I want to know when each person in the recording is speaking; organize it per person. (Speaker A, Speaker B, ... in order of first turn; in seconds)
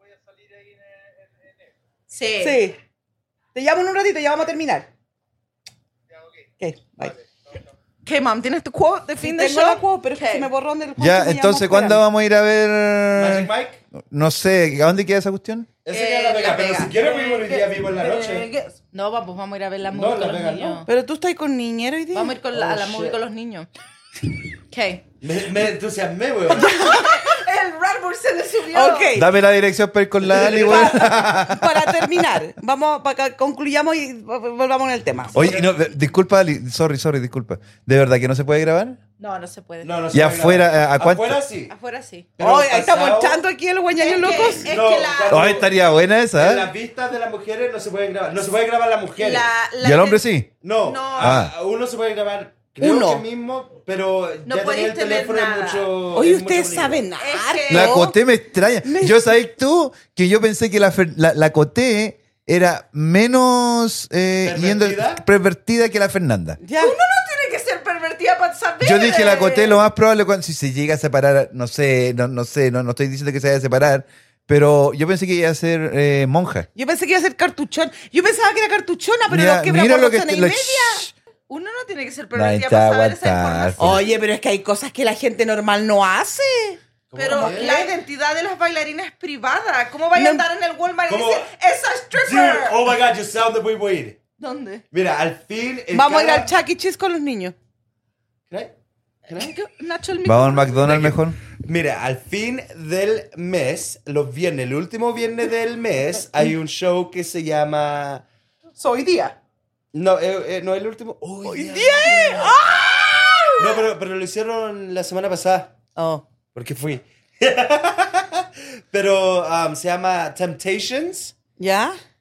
Speaker A: 2.1-2.6, 8.1-10.5, 15.9-17.0, 18.9-20.9, 22.1-23.7, 24.7-25.0, 26.5-29.1, 39.2-40.0, 41.7-42.3, 44.0-45.6, 49.2-51.4, 54.5-56.0, 57.2-58.0, 66.8-69.8, 81.5-84.1, 87.2-92.9, 94.4-94.8, 99.3-100.9
Speaker B: 2.4-2.8, 3.5-4.9, 6.6-7.2, 9.2-12.0, 20.9-22.4, 26.5-27.4, 28.7-29.3, 30.5-35.4, 42.4-44.8, 52.8-53.2, 56.1-58.2, 58.8-59.3, 66.6-66.9, 76.8-81.1, 83.8-87.9, 90.1-90.5, 95.9-97.5, 111.4-113.8, 116.0-116.2, 121.6-122.0
Speaker C: 11.0-15.7, 29.1-32.2, 35.3-39.0, 40.1-41.4, 45.3-46.7, 49.8-50.5, 51.2-51.5, 57.7-66.6, 68.8-76.7, 79.3-81.1, 82.3-84.1, 100.2-101.4
Speaker D: 13.1-13.8, 15.8-18.5, 19.9-20.8, 22.5-23.2, 25.2-26.7, 30.2-31.1, 35.3-35.8, 39.8-41.7, 42.4-43.4, 44.6-49.5, 50.6-57.0, 64.4-65.2, 87.1-87.9, 91.1-91.5, 92.1-94.2, 94.9-96.5, 99.3-99.6, 100.7-108.2, 109.9-112.6, 113.6-115.7, 116.5-121.3
Speaker E: 16.9-18.8, 108.8-109.4